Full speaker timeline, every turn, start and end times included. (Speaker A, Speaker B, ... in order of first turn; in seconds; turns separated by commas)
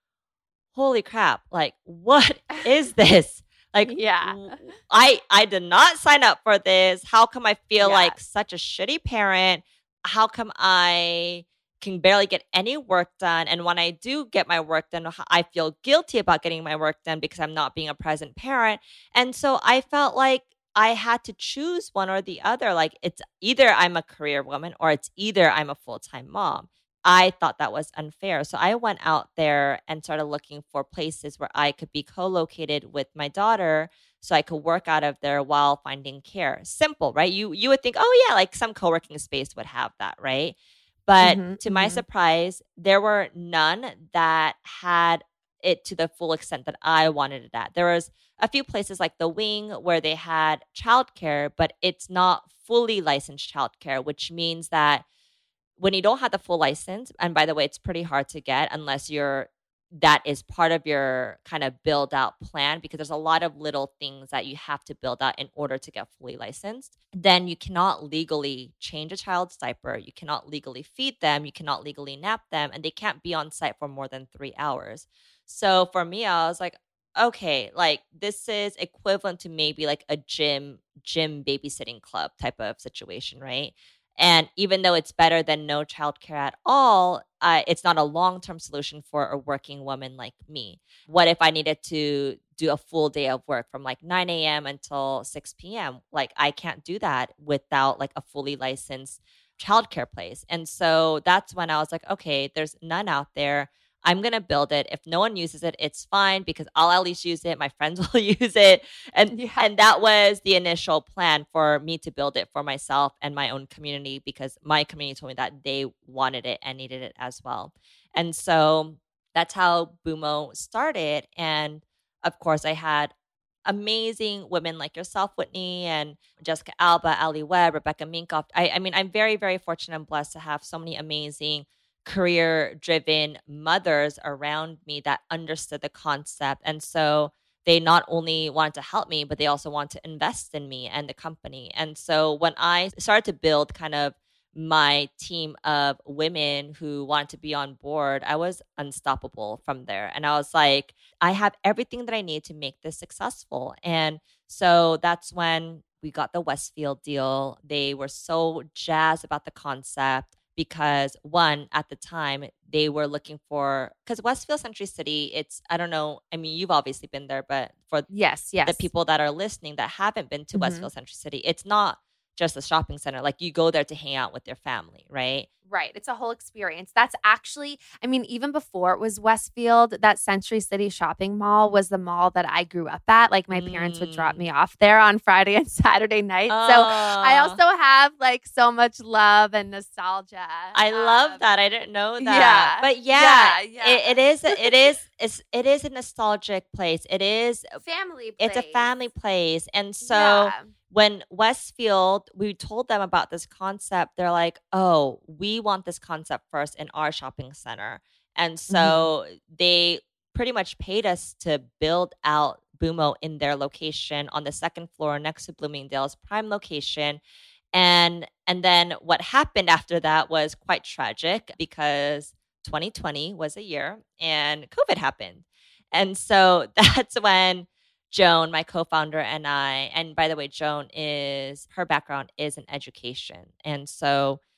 Speaker A: 0.7-55.0, Speaker B: 3.9-4.6, Speaker B: 7.8-8.2, Speaker B: 41.2-42.0, Speaker A: 55.8-123.1, Speaker B: 109.3-109.7, Speaker A: 123.7-168.1, Speaker B: 168.1-168.9, Speaker A: 168.6-175.5, Speaker B: 170.5-170.9, Speaker B: 175.7-191.4, Speaker A: 183.5-184.4, Speaker A: 186.5-187.6, Speaker A: 190.7-197.8, Speaker B: 192.2-194.7, Speaker B: 197.8-199.0, Speaker A: 198.4-217.2, Speaker B: 200.0-200.7, Speaker B: 208.7-209.1, Speaker A: 217.7-234.4